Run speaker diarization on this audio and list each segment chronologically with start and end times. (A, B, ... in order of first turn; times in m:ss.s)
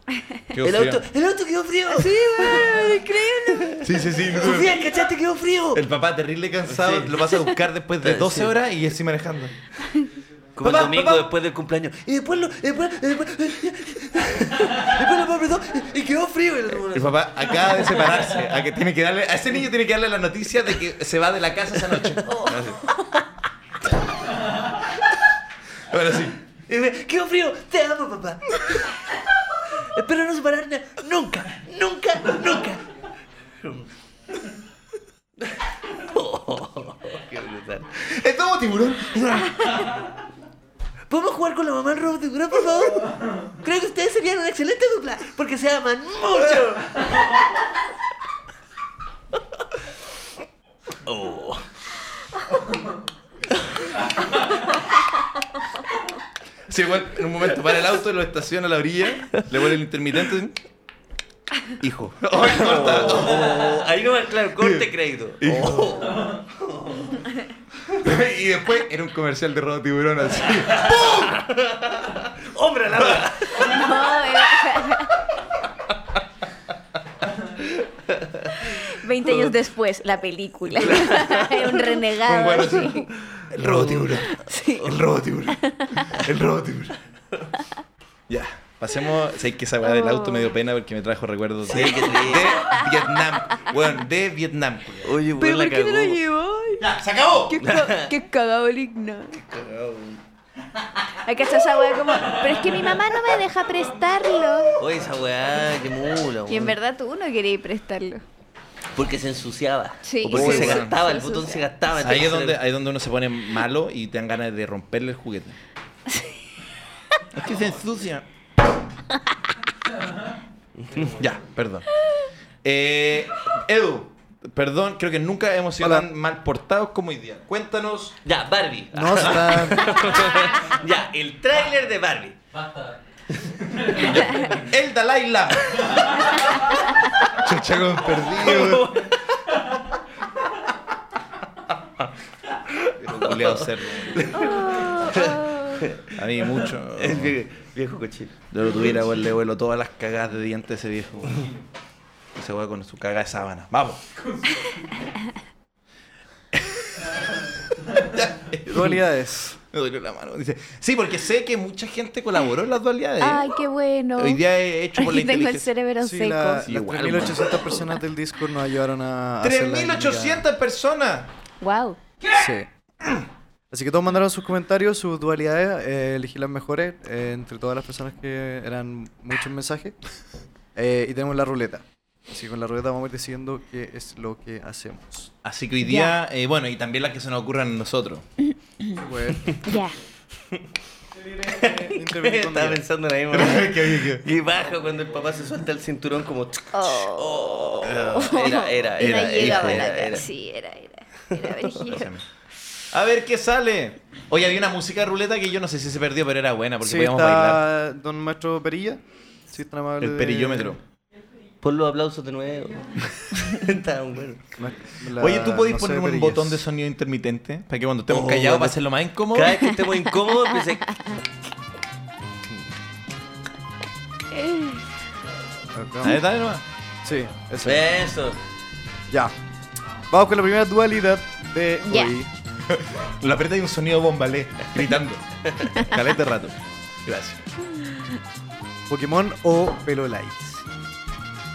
0:00.2-0:00.4 A
0:00.5-0:01.0 B
0:00.6-0:05.8 C
0:01.9-0:03.8 A
0:03.8-0:04.8 B
0:05.7-0:09.5 B
0:06.6-0:07.2 C
0:08.0-0:08.6 C
0:10.6-0:18.0 C
0:10.6-0:11.3 B
0:16.9-0:22.8 B
0:22.2-0:23.2 C
0:25.8-0:26.4 B
0:26.6-0:28.9 C
0:29.7-0:32.8 C
0:33.6-0:33.9 C
0:35.4-0:38.1 C
0:38.0-0:40.0 B
0:41.1-0:47.3 C
0:51.0-0:51.6 C
0:56.7-1:00.6 B
1:01.8-1:03.9 B
1:02.3-1:07.2 C
1:04.6-1:04.9 B
1:05.4-1:06.4 B
1:07.9-1:11.4 B
1:10.6-1:14.1 C
1:13.0-1:13.3 B
1:13.5-1:15.2 A
1:17.7-1:18.6 C
1:18.6-1:23.1 A
1:20.9-1:21.7 C
1:22.2-1:27.0 B
1:23.6-1:24.2 C
1:24.1-1:25.0 A
1:25.5-1:26.2 A
1:28.3-1:35.2 B
1:29.8-1:30.5 A
1:31.6-1:32.7 C
1:32.4-1:33.6 A
1:35.0-1:36.2 C
1:35.4-1:36.9 A
1:36.8-1:37.6 B
1:37.4-1:39.4 A
1:37.6-1:38.1 C
1:39.3-1:40.2 C
1:41.2-1:44.8 A
1:44.8-1:46.8 C
1:46.5-1:48.2 A
1:49.0-1:52.6 C
1:50.0-1:51.6 A
1:50.3-1:51.0 B
1:52.0-1:55.6 B
1:56.1-1:56.5 A
1:57.3-1:58.2 B
2:00.8-2:01.1 C
2:00.9-2:01.3 D
2:01.2-2:01.9 B
2:02.6-2:08.2 B
2:05.8-2:06.1 E
2:08.2-2:12.4 C
2:08.9-2:10.1 E
2:09.2-2:10.4 B
2:12.5-2:13.0 D
2:13.6-2:14.6 D
2:13.8-2:16.2 B
2:17.3-2:19.0 B
2:18.2-2:19.3 C
2:22.0-2:28.4 C
2:23.0-2:24.5 B
2:24.3-2:25.8 A
2:26.1-2:27.4 B
2:28.5-2:31.5 B
2:32.3-2:34.0 B
2:36.5-2:39.0 B
2:38.7-2:39.5 E
2:39.6-2:43.4 B
2:43.2-2:44.4 A
2:44.2-2:45.7 B
2:45.0-2:46.7 A
2:46.0-2:50.4 E
2:46.6-2:47.7 B
2:49.4-2:51.3 B
2:51.6-2:52.0 A
2:52.3-2:53.2 E
2:53.7-3:00.0 E
3:00.7-3:05.3 E
3:05.4-3:08.2 B
3:05.8-3:06.1 A
3:08.5-3:09.0 A
3:08.9-3:09.6 E
3:09.6-3:10.0 A
3:11.4-3:12.8 E
3:11.4-3:20.3 C
3:13.3-3:14.2 B
3:16.7-3:22.1 A
3:17.8-3:20.1 B
3:21.3-3:21.9 C
3:21.8-3:22.2 B
3:22.9-3:27.6 B
3:26.8-3:30.8 E
3:30.0-3:30.8 B
3:31.6-3:34.5 C
3:34.6-3:36.6 E
3:35.2-3:39.7 B
3:38.1-3:41.0 C
3:40.9-3:41.2 A
3:44.3-3:44.8 A
3:45.7-3:46.2 E
3:46.0-3:46.6 B
3:47.0-3:47.9 E
3:47.6-3:48.4 C
3:50.1-3:52.3 E
3:51.8-3:52.2 A
3:52.7-3:56.5 B
3:55.4-3:55.8 C
3:57.0-3:57.4 B
3:58.9-4:00.6 E